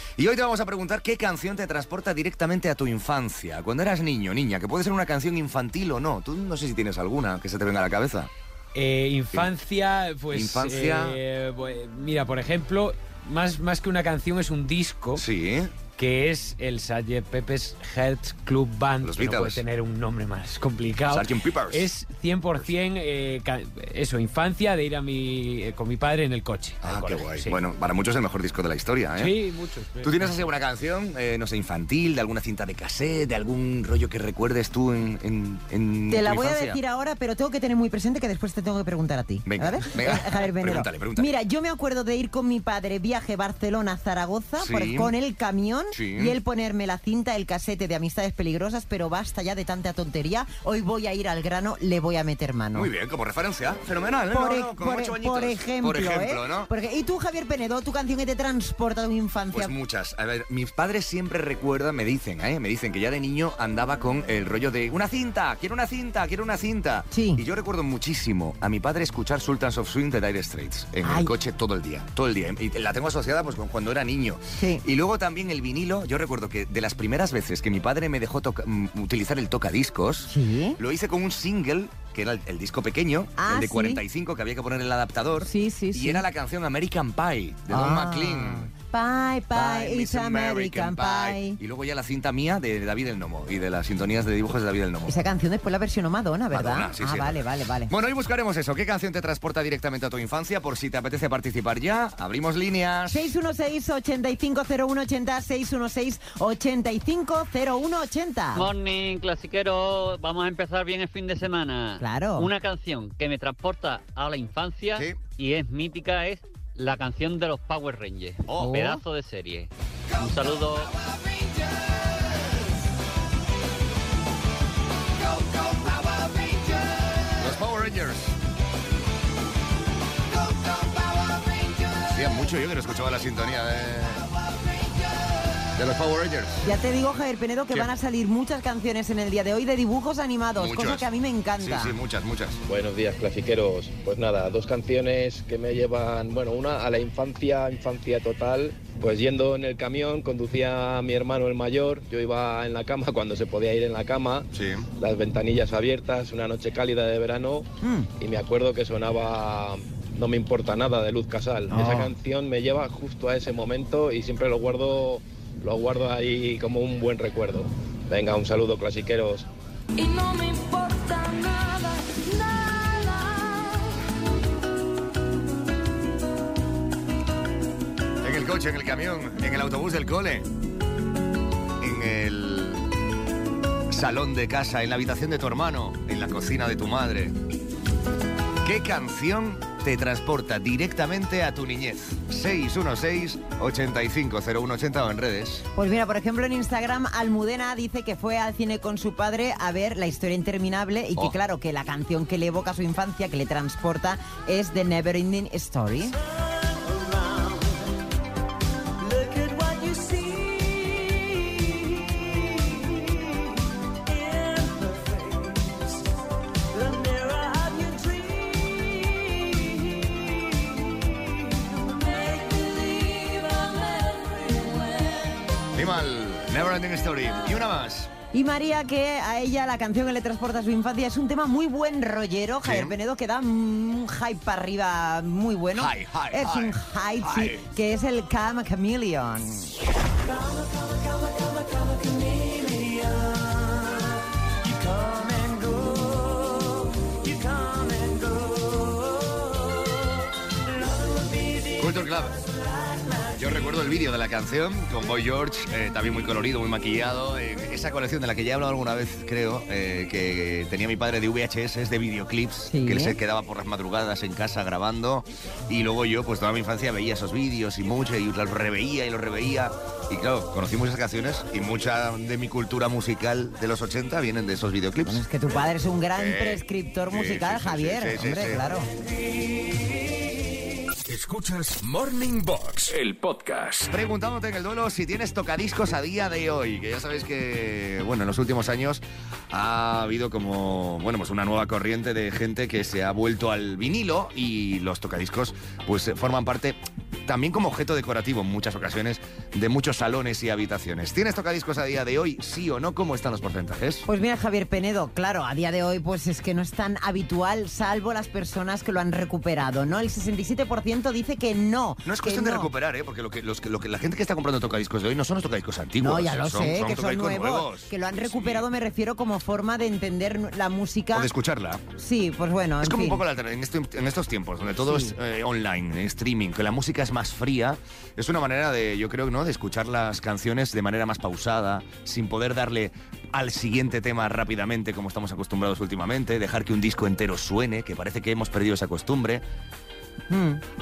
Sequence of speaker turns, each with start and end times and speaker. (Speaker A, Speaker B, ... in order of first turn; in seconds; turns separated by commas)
Speaker A: 0.2-8.3, Speaker B: 8.7-15.2, Speaker A: 10.3-11.2, Speaker A: 15.2-15.7, Speaker B: 15.9-27.6, Speaker A: 19.0-19.6, Speaker A: 21.1-21.9, Speaker A: 26.8-29.4, Speaker B: 29.2-30.4, Speaker A: 30.0-36.8, Speaker C: 36.1-52.9, Speaker A: 39.4-41.3, Speaker A: 44.6-45.1, Speaker A: 45.9-46.4, Speaker A: 52.7-56.7, Speaker C: 54.3-59.7, Speaker A: 59.5-88.7, Speaker C: 67.1-67.4, Speaker C: 71.0-71.3, Speaker C: 74.5-74.8, Speaker C: 80.3-80.8, Speaker C: 83.4-84.0, Speaker C: 85.4-86.2, Speaker C: 87.7-91.6, Speaker A: 89.5-95.2, Speaker C: 95.1-97.9, Speaker A: 96.5-103.3, Speaker C: 103.1-108.7, Speaker D: 108.5-120.9, Speaker C: 112.0-112.5, Speaker A: 114.9-115.2, Speaker A: 118.5-118.8, Speaker C: 118.5-119.0, Speaker A: 127.3-128.3, Speaker A: 132.1-134.3, Speaker A: 135.7-136.7, Speaker C: 136.6-141.9, Speaker A: 140.6-142.6, Speaker E: 142.7-154.5, Speaker A: 154.5-154.8, Speaker E: 155.0-169.5, Speaker C: 157.8-158.1, Speaker C: 161.7-162.1, Speaker F: 169.9-174.0, Speaker A: 178.2-180.5, Speaker A: 181.8-182.9, Speaker A: 183.9-187.3, Speaker A: 188.6-195.6, Speaker C: 195.7-206.2, Speaker F: 209.0-211.2, Speaker F: 214.1-215.4, Speaker F: 216.8-220.0, Speaker F: 221.8-225.2, Speaker A: 225.7-228.1, Speaker C: 228.3-239.7, Speaker A: 232.6-232.9, Speaker A: 235.7-237.7, Speaker F: 241.6-242.9, Speaker F: 244.8-246.6, Speaker F: 247.3-248.5, Speaker F: 251.3-251.7, Speaker A: 251.8-252.4, Speaker F: 252.9-253.2, Speaker A: 253.3-275.2, Speaker C: 262.7-263.2, Speaker C: 275.0-278.9, Speaker A: 276.1-278.8, Speaker G: 281.0-283.9, Speaker A: 283.9-304.0, Speaker C: 304.1-312.7, Speaker A: 312.0-318.7, Speaker C: 316.0-321.3, Speaker A: 321.1-321.8, Speaker C: 321.9-323.2, Speaker A: 322.8-339.4, Speaker C: 324.8-325.1, Speaker C: 340.3-340.6